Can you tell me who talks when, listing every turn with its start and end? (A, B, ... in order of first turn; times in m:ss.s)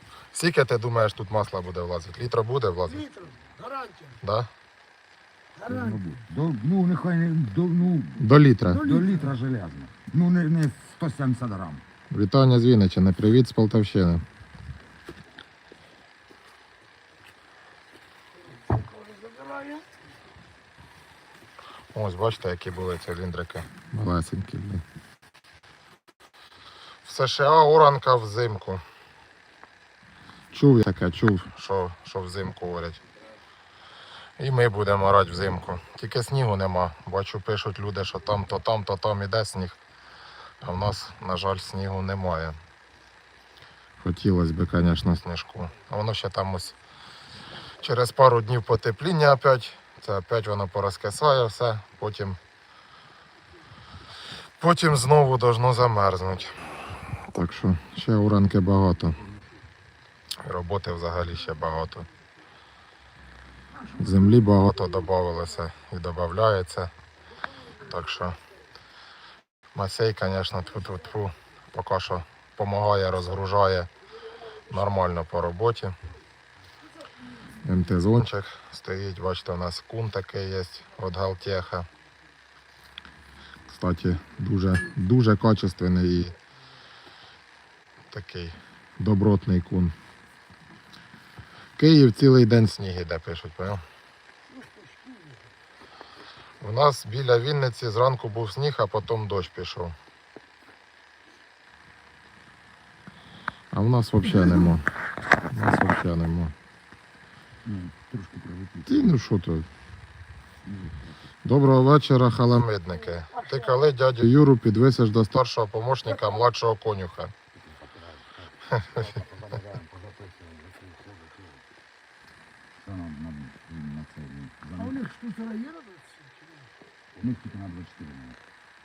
0:00.3-0:03.1 A
0:02.9-0:04.2 B
0:04.2-0:04.5 A
0:05.6-0:06.2 B
0:05.7-0:11.8 C
0:08.2-0:08.8 A
0:08.7-0:09.4 B
0:12.1-0:14.2 A
0:18.6-0:19.9 B
0:21.9-0:24.8 A
0:27.0-0:28.8 A
0:30.5-0:33.0 A
0:34.4-0:39.8 A
0:40.6-0:42.6 A
0:44.0-0:46.8 A
0:47.8-0:52.4 A
0:54.6-0:59.2 A
1:00.4-1:02.1 A
1:03.7-1:05.5 B
1:04.0-1:06.9 A
1:07.8-1:08.4 A
1:09.8-1:13.9 A
1:14.7-1:16.0 A
1:17.6-1:21.9 A
1:23.7-1:26.4 A
1:28.1-1:30.0 A
1:31.8-1:33.8 A
1:34.5-1:35.5 B
1:36.6-1:40.0 A
1:43.7-1:44.9 A
1:44.4-1:44.7 B
1:45.5-1:46.5 A
1:47.6-1:49.0 C
1:48.9-1:49.7 A
1:50.6-1:51.3 C
1:51.4-1:57.3 A
1:52.9-1:53.9 B
1:56.1-1:56.4 B
1:57.5-2:01.7 C
1:58.7-1:59.2 A
2:02.8-2:05.0 C
2:04.8-2:06.7 B
2:07.1-2:08.4 C